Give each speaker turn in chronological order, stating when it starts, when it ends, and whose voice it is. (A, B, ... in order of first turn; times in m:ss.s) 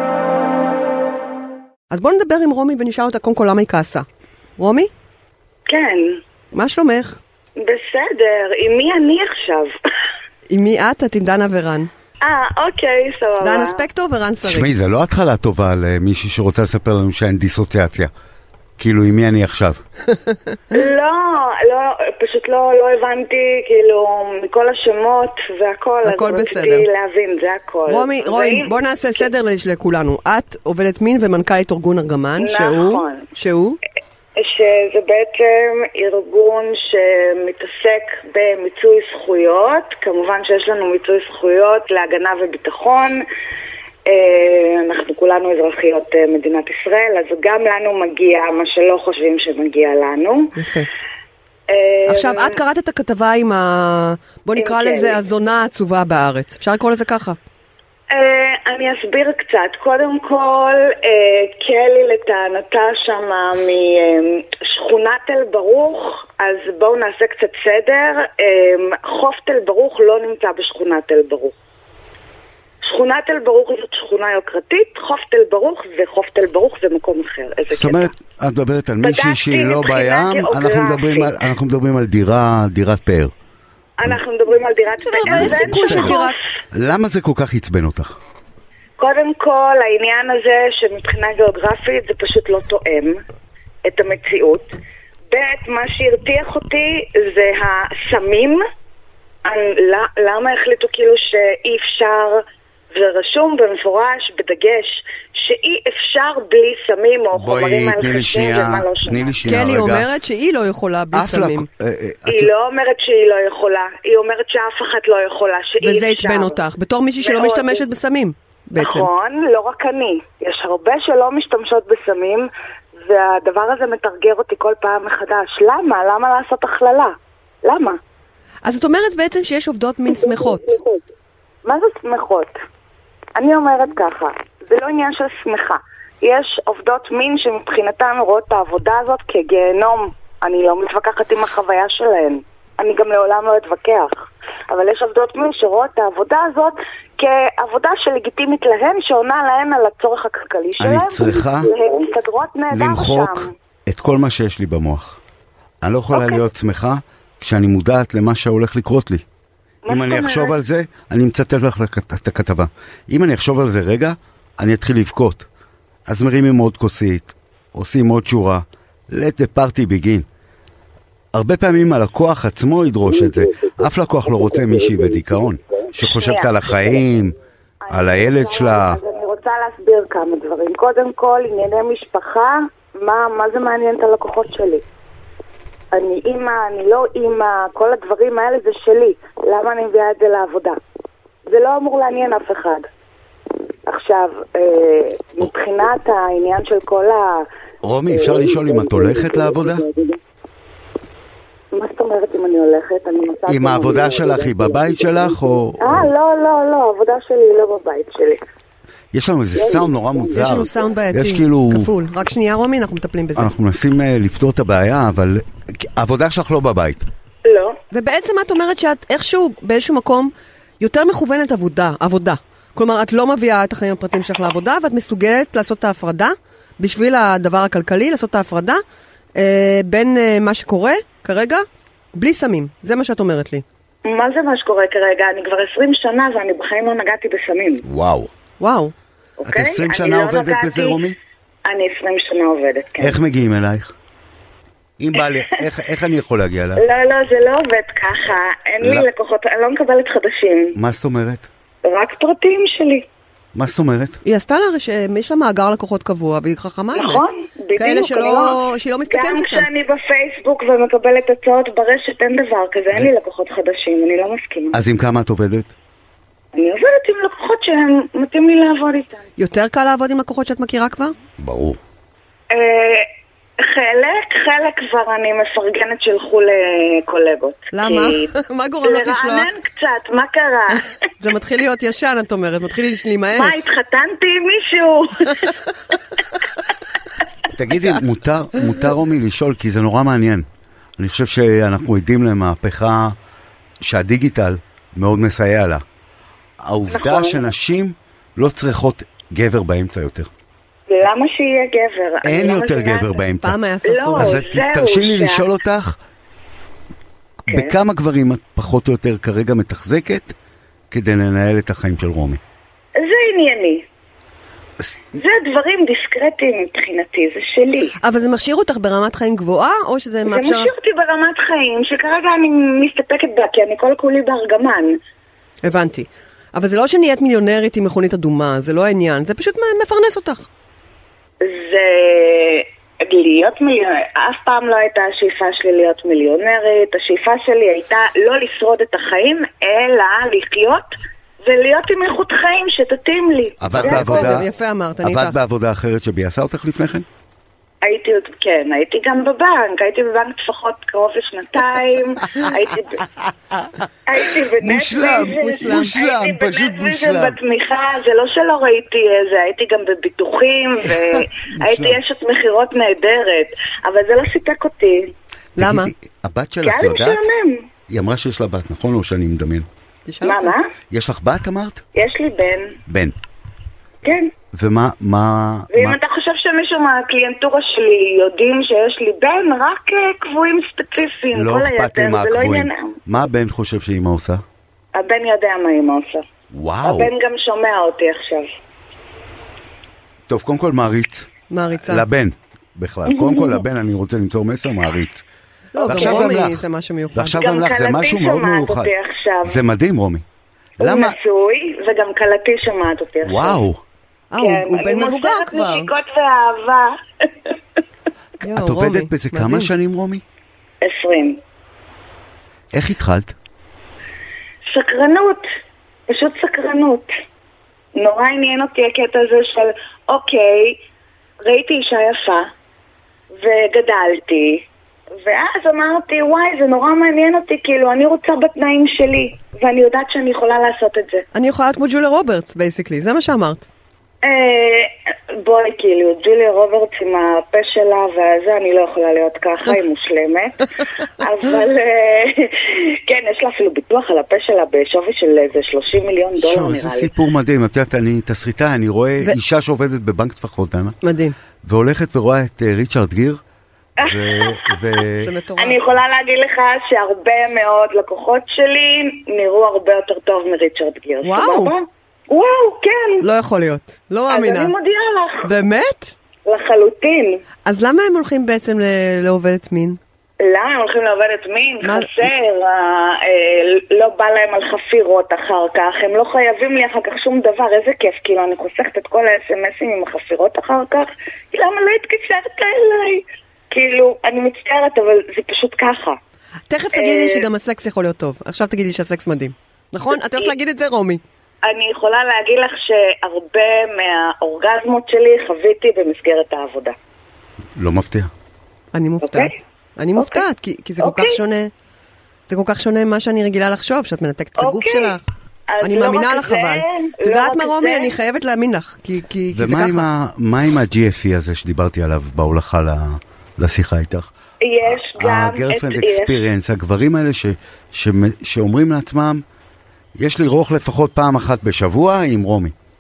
0:01.9-0:04.1 A
0:04.6-0:04.9 A
0:05.7-0:06.2 B
0:06.5-0:07.2 A
0:07.6-0:09.7 B
0:10.5-0:11.9 A
0:12.2-0:13.8 B
0:13.4-0:14.7 A
0:14.4-0:18.1 C
0:18.8-0:19.8 C
0:20.7-0:29.3 B
0:26.0-0:26.9 A
0:27.9-0:33.8 A
0:32.4-0:33.3 B
0:34.4-0:43.3 B
0:44.1-0:50.5 B
0:50.6-0:50.9 A
0:51.7-0:52.6 B
0:52.1-0:57.4 A
0:54.6-0:55.2 B
0:58.1-1:11.5 B
1:12.8-1:18.1 B
1:17.7-1:23.3 C
1:19.0-1:21.4 B
1:24.0-1:26.4 B
1:25.0-1:26.5 A
1:25.3-1:26.2 C
1:26.7-1:28.2 C
1:29.0-1:33.2 B
1:33.8-1:34.7 B
1:35.3-1:38.6 B
1:39.4-1:42.4 B
1:42.9-1:49.4 B
1:47.3-1:50.1 C
1:49.4-1:51.7 A
1:51.1-1:52.5 C
1:52.3-1:56.6 B
1:55.8-1:59.1 A
1:57.2-1:57.8 B
1:58.8-2:02.5 B
2:03.0-2:07.1 B
2:07.6-2:08.0 B
2:08.6-2:10.8 A
2:11.6-2:12.5 B
2:13.4-2:33.5 B
2:30.8-2:31.7 C
2:32.7-2:35.2 C
2:35.8-2:39.2 C
2:36.1-2:36.5 B
2:39.8-2:40.6 B
2:39.9-2:45.5 C
2:46.1-2:50.3 C
2:51.3-2:57.4 C
2:56.0-2:56.7 B
2:57.8-3:04.8 B
2:57.9-2:59.0 C
3:05.9-3:10.8 B
3:11.5-3:12.8 B
3:13.9-3:17.4 B
3:17.8-3:19.8 C
3:18.1-3:20.2 B
3:21.7-3:28.4 B
3:23.5-3:26.1 C
3:29.1-3:31.9 C
3:29.5-3:30.4 B
3:30.3-3:33.5 A
3:33.4-3:37.0 C
3:37.4-3:37.8 B
3:37.9-3:48.8 A
3:49.4-3:51.6 A
3:52.2-3:53.6 A
3:54.0-3:57.8 B
3:57.8-3:58.3 C
3:58.6-3:58.9 A
3:59.4-4:01.0 B
3:59.5-4:01.2 C
4:01.7-4:03.2 B
4:03.0-4:03.9 C
4:05.0-4:06.8 C
4:05.2-4:05.6 B
4:06.8-4:10.8 B
4:08.8-4:09.1 C
4:10.8-4:11.5 C
4:11.8-4:13.0 B
4:13.6-4:14.2 C
4:14.2-4:17.2 A
4:16.9-4:18.6 B
4:17.8-4:19.7 A
4:19.1-4:24.8 B
4:24.7-4:25.7 C
4:26.5-4:29.2 B
4:29.4-4:31.1 A
4:31.4-4:31.8 C
4:32.5-4:33.1 B
4:33.6-4:40.8 B
4:37.7-4:39.5 A
4:41.2-4:43.6 A
4:43.3-4:45.5 B
4:47.6-4:50.4 C
4:51.0-4:53.2 C
4:53.8-4:55.8 C
4:56.6-5:00.3 C
4:56.9-4:57.5 B
5:00.9-5:03.2 B
5:02.2-5:03.6 C
5:03.4-5:04.4 A
5:03.8-5:05.5 B
5:04.2-5:06.0 C
5:07.5-5:07.8 B
5:07.5-5:10.3 C
5:10.9-5:12.4 C
5:13.0-5:13.8 B
5:15.1-5:18.0 B
5:18.0-5:20.7 A
5:20.2-5:25.0 B
5:25.6-5:30.5 A
5:31.4-5:40.9 B
5:41.4-5:44.4 B
5:43.6-5:44.5 C
5:43.7-5:45.4 A
5:45.0-5:47.1 C
5:47.8-5:53.0 B
5:54.1-6:05.1 B
5:54.5-5:57.4 C
5:55.4-5:56.0 A
6:00.9-6:02.0 C
6:05.6-6:07.2 C
6:05.6-6:05.9 A
6:06.6-6:07.7 B
6:07.9-6:09.7 C
6:10.1-6:10.5 A
6:10.2-6:10.7 B
6:10.9-6:11.8 C
6:11.9-6:12.8 B
6:12.9-6:13.2 C
6:14.0-6:14.3 B
6:14.5-6:16.0 C
6:15.7-6:23.0 B
6:21.3-6:24.4 C
6:25.0-6:26.2 B
6:26.5-6:27.1 C
6:26.8-6:28.5 B
6:30.3-6:35.2 C
6:31.5-6:32.1 A
6:33.1-6:33.6 B
6:35.7-6:37.4 A
6:35.8-6:36.3 B
6:35.9-6:38.9 C
6:37.3-6:39.6 B
6:39.4-6:40.2 C
6:40.8-6:41.2 C
6:40.8-6:43.6 B
6:43.2-6:43.8 C
6:44.3-6:45.9 A
6:44.4-6:47.5 B
6:48.4-6:50.2 C
6:48.4-6:49.7 A
6:50.8-6:51.4 B
6:52.7-6:53.4 C
6:54.7-6:55.4 B
6:56.1-6:57.1 B
6:58.0-7:00.8 B
7:01.4-7:02.5 B
7:03.3-7:04.7 B
7:05.2-7:11.2 B
7:11.4-7:13.6 A
7:14.2-7:20.6 B
7:21.2-7:27.1 B
7:26.4-7:31.0 C
7:31.0-7:31.4 A
7:31.6-7:33.4 C
7:34.0-7:35.3 C
7:34.0-7:34.8 B
7:35.2-7:35.8 A
7:35.6-7:43.2 B
7:41.2-7:41.7 A
7:43.2-7:44.7 A
7:44.3-7:45.5 B
7:45.4-7:46.1 A
7:46.4-7:47.4 B
7:47.7-7:50.0 A
7:50.4-8:06.2 B
7:51.8-7:52.3 A
8:06.7-8:11.2 A
8:06.9-8:07.5 B
8:11.6-8:17.0 B
8:17.8-8:18.3 C
8:18.9-8:21.7 A
8:19.2-8:19.5 B
8:20.2-8:20.4 B
8:21.0-8:21.4 B
8:22.5-8:25.2 A
8:24.6-8:25.2 B
8:25.7-8:28.2 B
8:25.8-8:30.1 A
8:29.5-8:34.3 C
8:34.6-8:36.5 B
8:34.8-8:39.4 C
8:40.2-8:42.7 C